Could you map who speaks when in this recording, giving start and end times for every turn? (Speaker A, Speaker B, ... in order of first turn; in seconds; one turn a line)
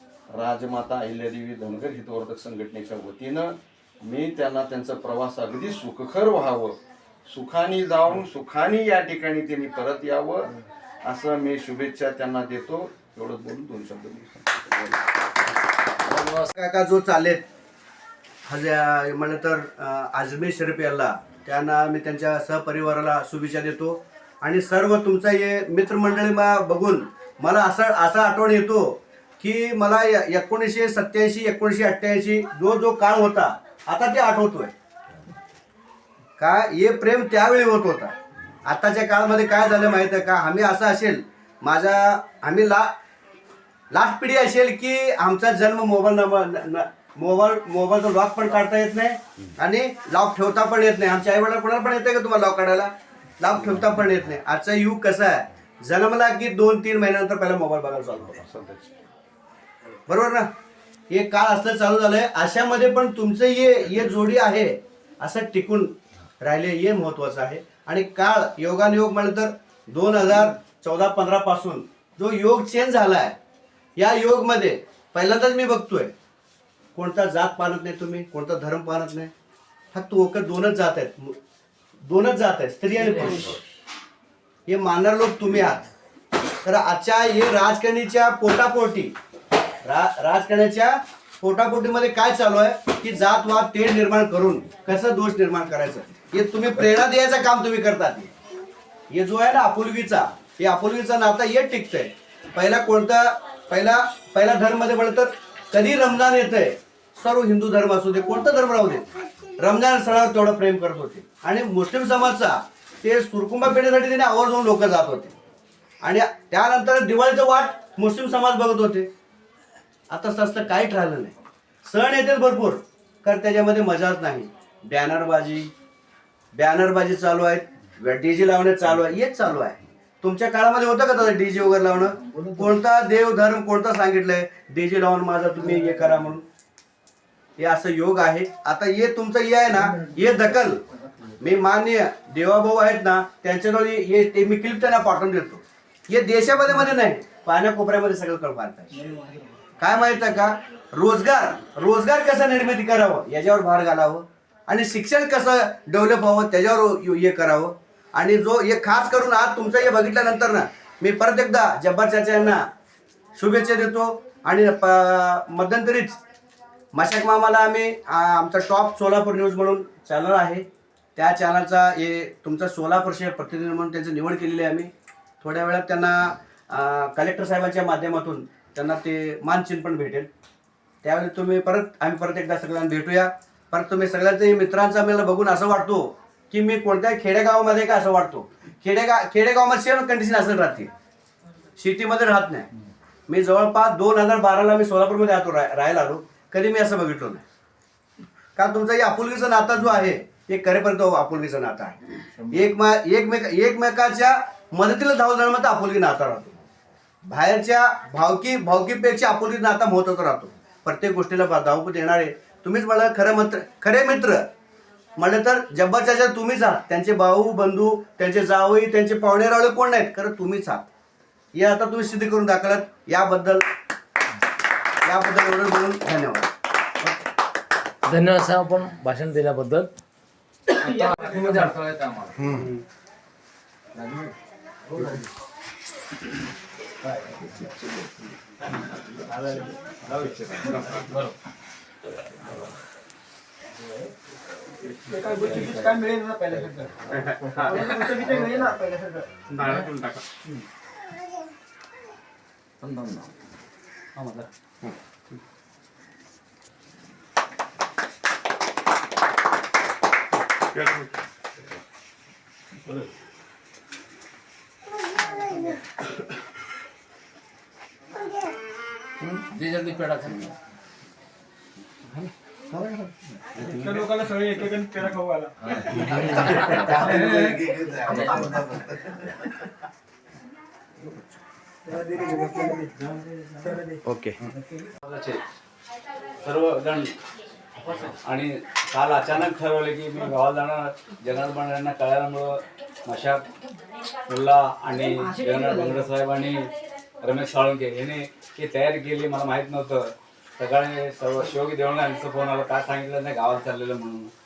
Speaker A: 0.3-14.7
Speaker B: 16.1-16.5
Speaker C: 16.6-17.4
Speaker C: 18.5-34.7
Speaker C: 36.4-38.1
Speaker C: 38.7-42.9
Speaker C: 43.9-58.4
Speaker A: 58.2-59.0
Speaker C: 60.1-60.5
Speaker C: 61.1-73.3
Speaker C: 74.0-76.1
Speaker C: 77.0-79.3
Speaker C: 79.9-81.4
Speaker C: 82.0-83.6
Speaker C: 84.7-85.9
Speaker C: 86.6-89.2
Speaker C: 89.8-98.3
Speaker C: 99.1-109.1
Speaker C: 109.6-115.3
Speaker C: 116.0-119.1
Speaker C: 120.1-125.7
Speaker C: 126.5-136.4
Speaker C: 137.6-140.8
Speaker C: 141.4-149.0
Speaker C: 149.8-162.6
Speaker C: 163.4-166.2
Speaker C: 166.9-170.7
Speaker C: 171.2-174.9
Speaker C: 175.4-180.3
Speaker C: 181.0-190.9
Speaker C: 191.8-192.7
Speaker C: 193.3-197.4
Speaker C: 198.6-202.0
Speaker C: 202.5-206.6
Speaker C: 207.2-214.5
Speaker C: 215.2-220.9
Speaker C: 221.5-223.6
Speaker C: 225.1-226.5
Speaker B: 228.0-229.9
Speaker B: 230.7-232.6
Speaker B: 234.0-234.3
Speaker D: 240.2-240.8
Speaker B: 241.0-241.3
Speaker D: 245.1-249.6
Speaker B: 249.6-249.9
Speaker E: 254.2-254.5
Speaker B: 269.5-270.5
Speaker A: 272.7-273.1
Speaker D: 273.6-276.2
Speaker B: 276.2-276.9
Speaker D: 276.8-278.1
Speaker B: 278.1-278.4
Speaker D: 282.1-282.9
Speaker D: 283.7-284.0
Speaker E: 285.0-285.4
Speaker E: 286.4-287.1
Speaker E: 288.2-292.5
Speaker E: 293.1-293.5
Speaker E: 294.3-296.7
Speaker E: 297.2-304.3